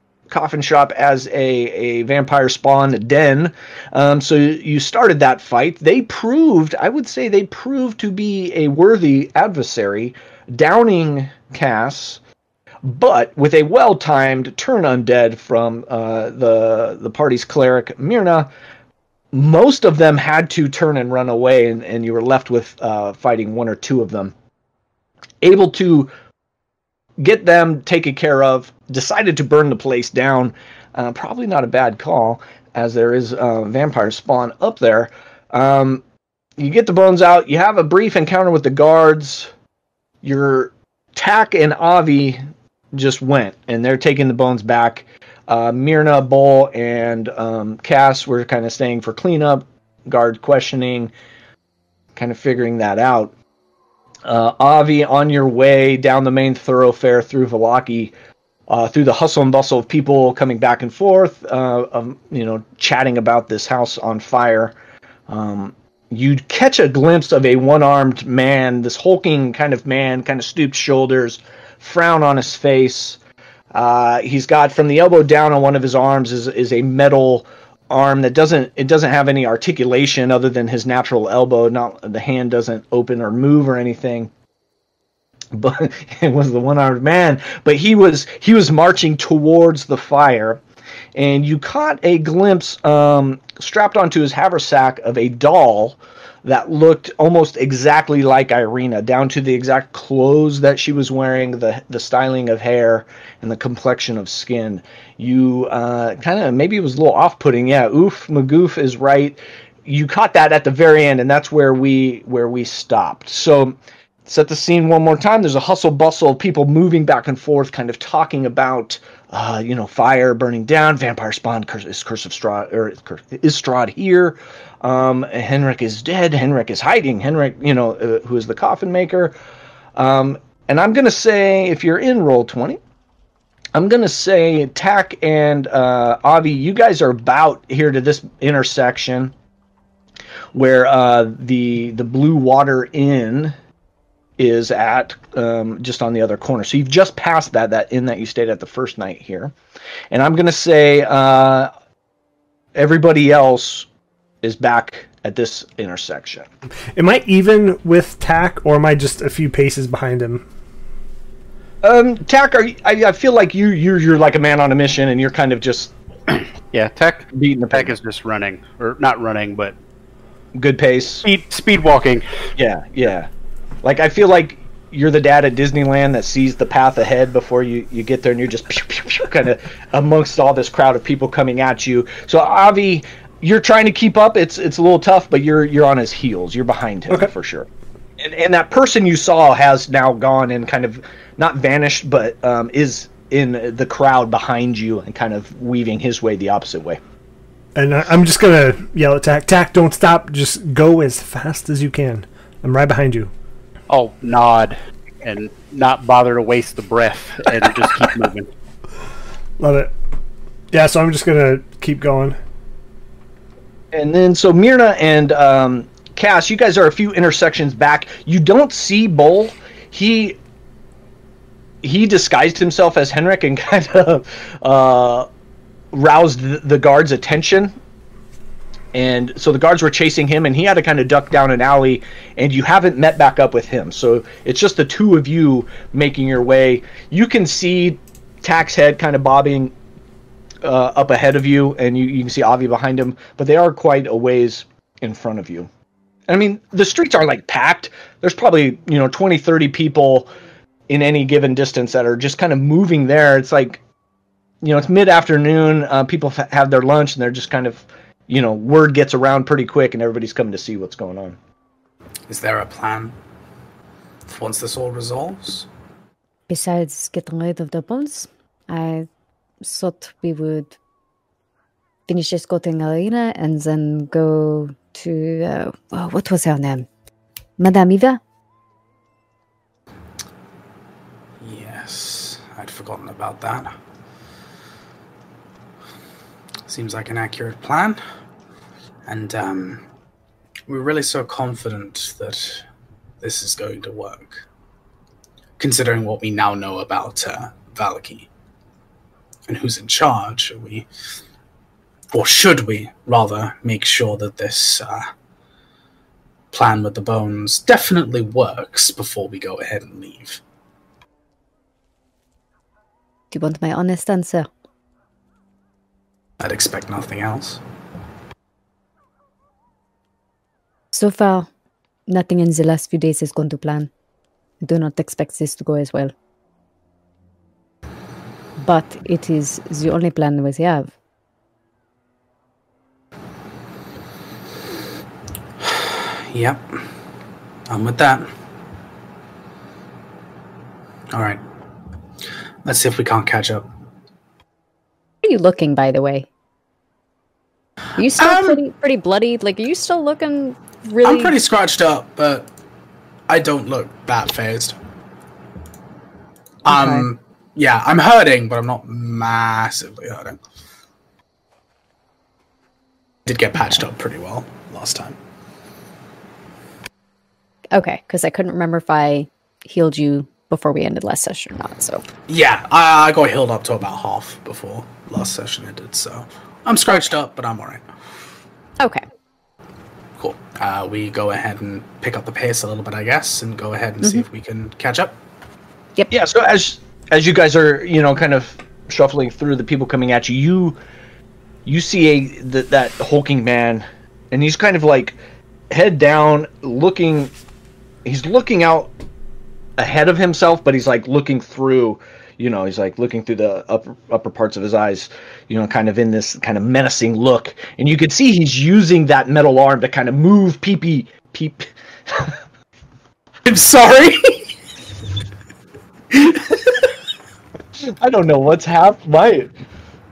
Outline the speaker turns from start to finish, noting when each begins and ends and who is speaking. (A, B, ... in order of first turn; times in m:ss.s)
0:00.3-0:12.2 A
0:12.8-0:18.5 A
0:19.3-0:24.3 A
0:25.4-0:26.1 A
0:27.2-0:36.0 A
0:36.6-0:39.5 A
0:40.2-0:42.4 A
0:42.9-0:51.1 A
0:52.1-0:53.3 A
0:54.2-0:58.1 A
0:58.7-1:04.8 A
1:05.3-1:13.2 A
1:13.7-1:24.3 A
1:25.5-1:30.6 A
1:31.1-2:09.3 A
2:10.0-2:12.8 A
2:13.7-2:19.3 A
2:20.5-2:23.5 A
2:24.4-2:29.5 A
2:30.1-2:31.7 A
2:32.7-2:33.9 A
2:34.4-2:36.5 A
2:36.9-2:40.4 B
2:41.8-2:45.9 A
2:46.7-2:49.8 C
2:47.3-2:47.9 A
2:50.5-2:51.2 A
2:51.2-2:52.2 C
2:52.6-2:53.3 A
2:53.8-3:17.0 A
3:17.8-3:23.3 B
3:23.9-3:28.5 C
3:29.6-3:29.9 B
3:30.7-3:32.4 B
3:33.9-3:40.4 A
3:41.8-3:45.3 A
3:45.9-3:47.8 A
3:48.9-3:59.7 A
4:00.6-4:05.7 A
4:06.3-4:10.3 A
4:10.9-4:13.8 A
4:14.6-4:21.4 A
4:22.3-4:23.1 D
4:24.3-4:25.7 D
4:26.5-4:29.1 E
4:29.6-4:30.8 E
4:32.1-4:36.9 E
4:37.6-4:38.2 E
4:41.4-4:43.7 D
4:46.6-4:48.0 D
4:49.0-4:49.8 D
4:50.7-4:52.6 D
4:53.2-4:54.4 D
4:55.6-4:58.3 D
4:59.5-5:00.9 D
5:02.1-5:05.1 D
5:06.5-5:10.4 D
5:13.3-5:14.5 E
5:16.4-5:17.6 D
5:20.9-5:21.5 E
5:22.1-5:23.9 E
5:24.6-5:26.1 E
5:28.6-5:30.9 E
5:35.6-5:36.8 D
5:37.7-5:38.3 D
5:41.1-5:41.4 D
5:42.6-5:43.7 D
5:45.2-5:46.3 E
5:48.0-5:51.3 E
5:48.1-5:48.6 D
5:51.0-5:52.5 D
5:53.3-5:54.8 D
5:56.6-6:00.4 D
5:56.7-5:57.1 E
6:03.2-6:05.2 D
6:07.7-6:12.0 E
6:12.3-6:17.8 D
6:20.2-6:25.2 D
6:26.1-6:30.8 A
6:31.6-6:35.2 A
6:35.7-6:37.3 A
6:38.0-6:38.9 A
6:39.8-6:52.4 A
6:53.4-6:54.5 D
6:56.1-6:56.9 D
6:57.8-6:59.5 A